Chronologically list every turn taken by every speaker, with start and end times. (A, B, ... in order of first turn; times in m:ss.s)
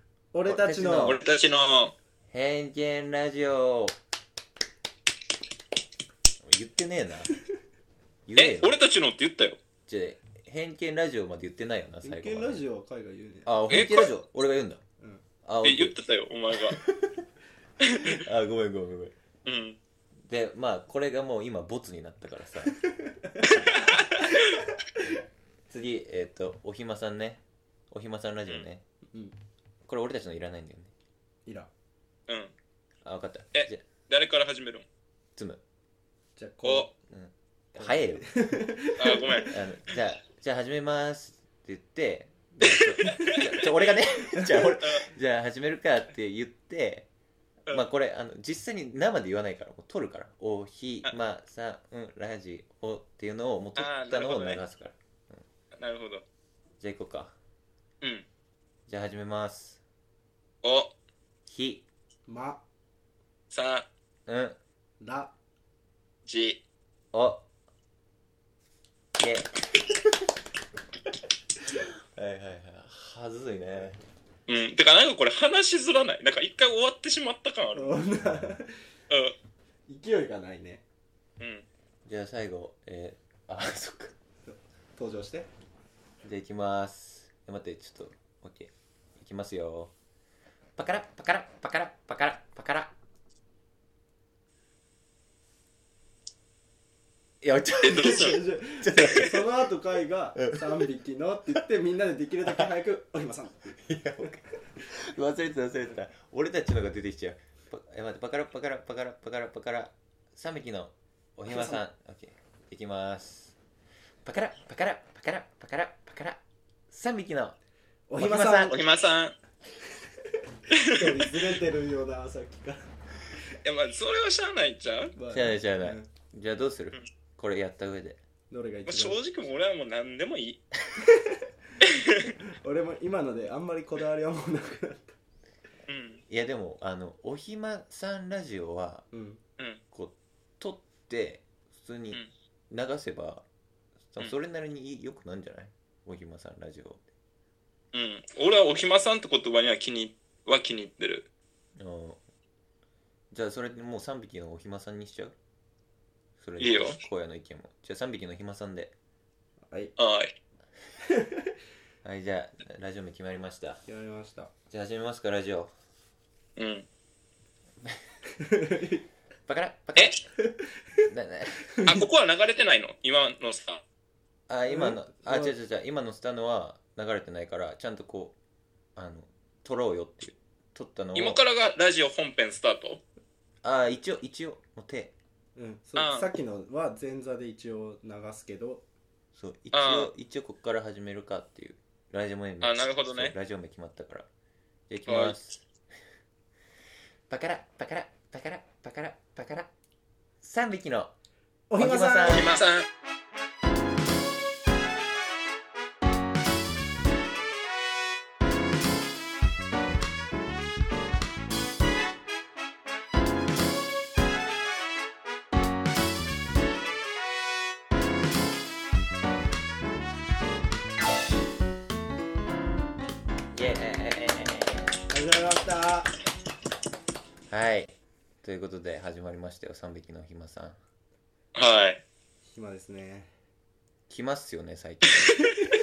0:00.3-0:01.2 A
0:00.4-0:01.2 B
0:01.0-0:01.9 C
0:02.3-0:03.9 B
0:06.4-0:07.3 B
0:08.2-0:08.8 B
0:08.4-0:09.6 C
0:09.8-0:12.6 B
0:12.0-0:13.5 A
0:13.4-0:14.8 B
0:13.7-0:14.1 C
0:15.4-0:16.0 B
0:15.6-0:16.8 C
0:16.8-0:17.1 B
0:17.8-0:18.2 C
0:18.1-0:19.1 B
0:19.4-0:19.8 C
0:20.2-0:22.8 B
0:22.9-0:23.5 A
0:23.4-0:24.6 C
0:23.5-0:23.8 B
0:25.7-0:28.8 B
0:29.8-0:30.9 B
0:32.3-0:32.5 C
0:33.0-0:33.8 B
0:33.5-0:34.8 C
0:35.4-0:35.6 B
0:36.4-0:36.9 A
0:36.6-0:36.9 C
0:37.1-0:38.4 B
0:37.8-0:39.5 A
0:39.0-0:39.6 C
0:39.5-0:47.1 B
0:42.7-0:43.5 C
0:44.8-0:45.1 C
0:47.7-0:55.4 B
0:53.8-0:54.6 C
0:55.7-0:56.2 C
0:56.8-0:57.3 B
0:58.0-0:58.2 C
0:58.9-0:59.8 B
1:00.6-1:00.9 C
1:01.5-1:01.8 B
1:02.3-1:02.6 A
1:03.5-1:03.9 C
1:04.3-1:04.6 B
1:05.0-1:05.3 A
1:06.2-1:06.6 C
1:07.1-1:07.4 B
1:09.2-1:10.3 B
1:11.8-1:14.0 B
1:14.5-1:18.0 C
1:17.7-1:18.7 A
1:18.2-1:18.5 B
1:19.1-1:19.4 C
1:19.9-1:20.8 A
1:21.4-1:21.7 C
1:22.0-1:24.1 B
1:24.5-1:25.5 A
1:26.2-1:29.9 B
1:30.8-1:32.9 B
1:37.4-1:39.4 B
1:37.8-1:38.4 C
1:37.9-1:44.3 A
1:40.4-1:40.8 B
1:43.8-1:53.5 B
1:51.5-1:51.8 A
1:54.2-1:57.6 B
1:58.1-1:58.8 A
1:58.2-1:58.8 B
1:58.6-1:59.4 C
2:00.7-2:01.5 C
2:00.8-2:02.9 A
2:03.6-2:05.1 C
2:05.2-2:06.1 A
2:05.3-2:08.2 B
2:08.5-2:09.2 A
2:08.8-2:10.6 C
2:11.0-2:11.4 A
2:11.8-2:12.3 C
2:12.4-2:15.2 A
2:15.9-2:16.2 C
2:16.3-2:19.0 B
2:19.1-2:19.4 A
2:19.9-2:23.4 B
2:24.1-2:27.0 B
2:27.9-2:31.3 C
2:31.8-2:32.2 B
2:33.3-2:35.3 B
2:36.4-2:38.9 B
2:36.6-2:37.0 C
2:39.7-2:39.9 A
2:40.0-2:40.3 C
2:41.0-2:41.5 A
2:42.0-2:43.8 B
2:43.8-2:44.5 A
2:44.7-2:45.7 B
2:46.6-2:46.9 C
2:48.4-2:49.0 A
2:49.5-2:50.2 B
2:50.4-2:51.0 A
2:51.0-2:51.7 B
2:51.8-2:52.0 A
2:51.8-2:53.8 C
2:54.5-2:58.4 B
2:54.7-2:55.5 A
2:59.0-3:01.4 B
3:01.1-3:03.0 C
3:03.6-3:05.1 B
3:05.6-3:08.8 A
3:06.0-3:06.3 C
3:09.3-3:14.3 B
3:09.7-3:10.1 C
3:12.6-3:13.3 C
3:14.9-3:15.6 B
3:15.1-3:15.4 C
3:17.3-3:19.7 B
3:20.4-3:21.1 B
3:21.7-3:22.5 A
3:21.8-3:22.5 B
3:22.3-3:22.9 C
3:43.5-3:44.9 B
3:45.1-3:46.1 A
3:47.5-3:50.8 B
3:51.5-3:52.0 C
3:52.4-3:53.3 A
3:54.1-3:55.4 B